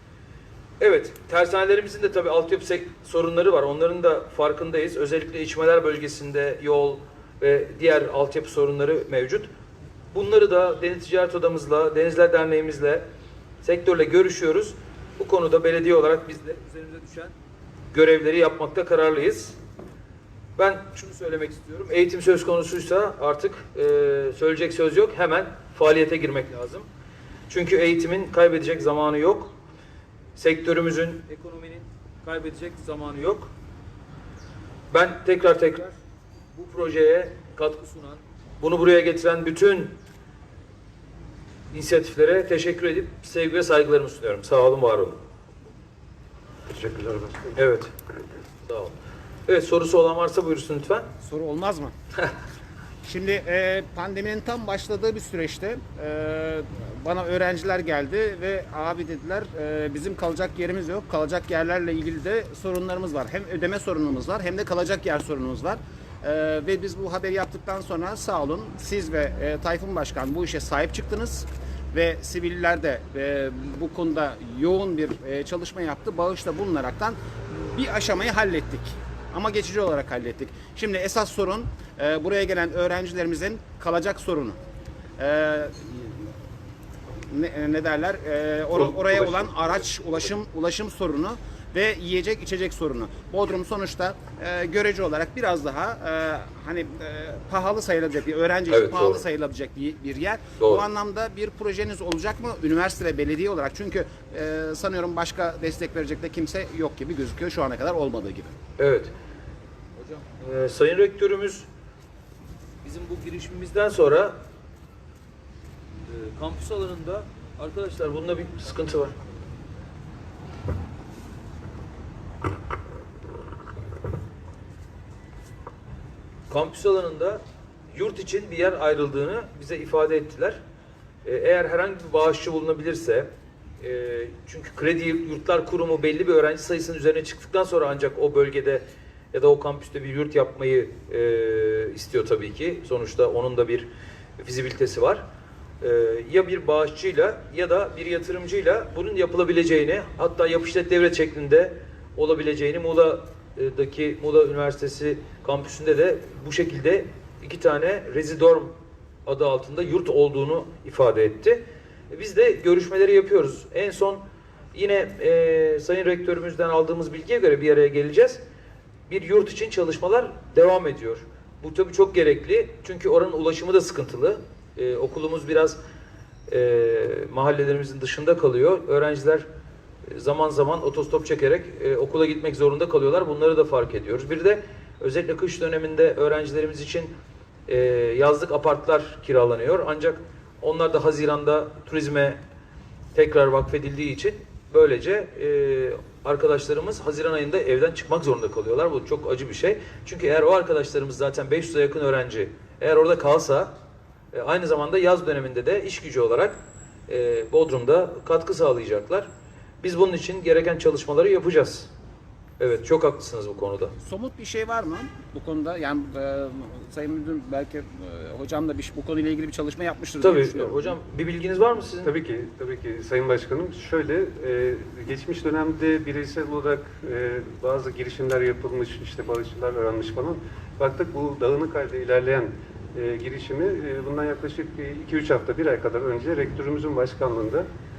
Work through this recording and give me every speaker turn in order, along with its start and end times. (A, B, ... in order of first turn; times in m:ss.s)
0:00.8-0:09.5 A
0:10.1-0:13.0 A
0:13.6-0:17.3 A
0:17.9-0:19.6 A
0:20.6-0:26.9 A
0:27.5-0:29.5 A
0:30.3-0:33.5 A
0:34.9-0:36.0 A
0:36.5-0:39.9 A
0:41.7-0:45.2 A
0:46.7-0:47.6 B
0:47.6-0:47.9 A
0:48.6-0:48.9 A
0:49.5-0:51.1 A
0:51.2-0:51.9 C
0:53.0-1:24.6 C
1:25.2-1:26.3 C
1:27.3-1:48.6 C
1:29.1-1:29.5 B
1:38.7-1:39.2 A
1:48.8-1:49.1 A
1:50.0-1:51.7 A
1:52.8-1:54.4 A
1:56.1-1:59.1 A
2:06.5-2:10.6 A
2:11.2-2:13.3 A
2:13.8-2:23.9 A
2:24.4-2:25.2 A
2:25.8-2:38.7 A
2:39.2-2:44.2 A
2:44.7-2:48.4 A
2:49.1-2:55.8 A
2:56.5-2:59.4 A
3:00.1-3:07.1 A
3:07.7-3:12.4 A
3:13.1-3:23.7 A
3:24.3-3:26.6 A
3:27.1-3:29.3 A
3:29.8-3:31.9 A
3:32.6-3:33.9 A
3:34.0-3:41.0 C
3:40.2-3:42.1 A
3:42.0-3:57.7 B